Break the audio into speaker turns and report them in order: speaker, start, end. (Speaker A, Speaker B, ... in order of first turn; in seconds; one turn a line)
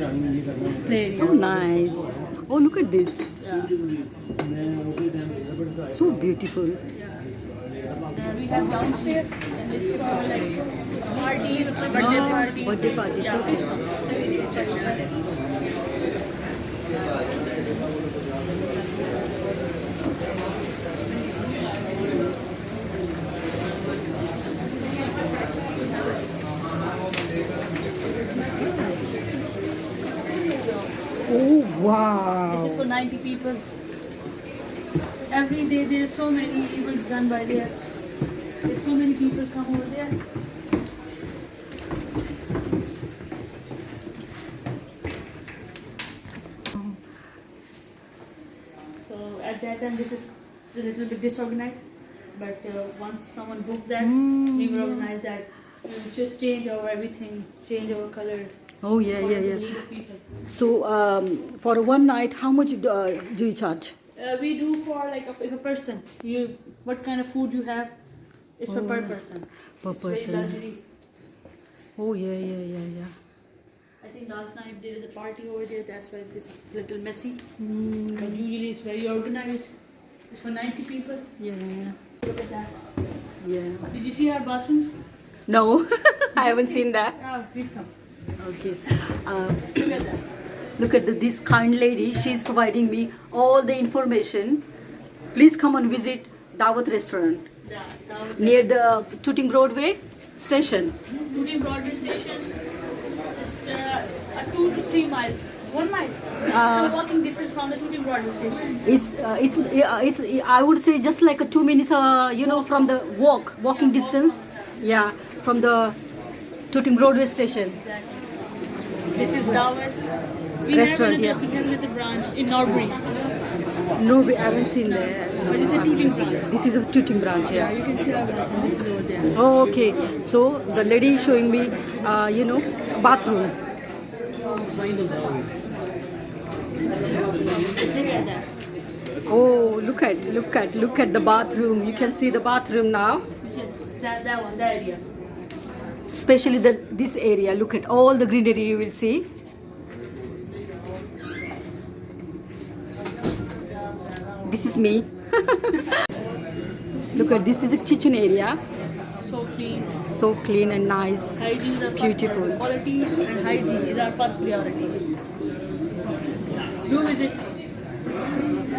Speaker A: 0.8-1.4
Speaker B: 1.0-3.3
Speaker A: 3.4-3.8
Speaker B: 5.9-6.8
Speaker A: 6.9-7.2
Speaker A: 8.1-15.1
Speaker B: 11.9-13.7
Speaker B: 31.2-32.8
Speaker A: 32.5-33.8
Speaker A: 35.3-37.8
Speaker A: 38.6-40.2
Speaker A: 49.0-58.5
Speaker B: 54.0-55.1
Speaker B: 58.8-59.7
Speaker A: 59.1-60.2
Speaker B: 60.5-63.9
Speaker A: 64.2-70.8
Speaker B: 68.7-69.2
Speaker B: 69.8-70.6
Speaker B: 72.0-73.1
Speaker A: 74.0-77.5
Speaker B: 77.6-78.4
Speaker A: 78.1-81.3
Speaker B: 81.4-82.0
Speaker A: 82.2-82.9
Speaker B: 83.4-83.9
Speaker A: 83.9-84.9
Speaker B: 85.5-87.2
Speaker A: 86.4-87.9
Speaker B: 88.4-90.0
Speaker A: 89.7-90.2
Speaker B: 90.8-94.6
Speaker B: 95.3-97.4
Speaker A: 97.6-98.8
Speaker B: 98.4-100.9
Speaker A: 101.2-102.5
Speaker A: 103.3-108.8
Speaker B: 106.5-107.0
Speaker B: 108.8-116.0
Speaker A: 113.7-115.0
Speaker B: 116.7-117.8
Speaker A: 117.7-118.4
Speaker A: 119.1-120.0
Speaker B: 119.1-119.6
Speaker A: 120.6-123.0
Speaker B: 120.7-121.4
Speaker B: 123.9-127.8
Speaker A: 124.8-126.5
Speaker A: 127.5-129.3
Speaker B: 129.3-133.6
Speaker A: 137.5-138.5
Speaker B: 139.2-143.2
Speaker A: 143.4-145.0
Speaker B: 146.1-149.2
Speaker B: 154.4-156.0
Speaker B: 157.1-158.6
Speaker A: 159.2-159.9
Speaker B: 160.1-162.6
Speaker A: 161.4-165.1
Speaker A: 166.7-167.5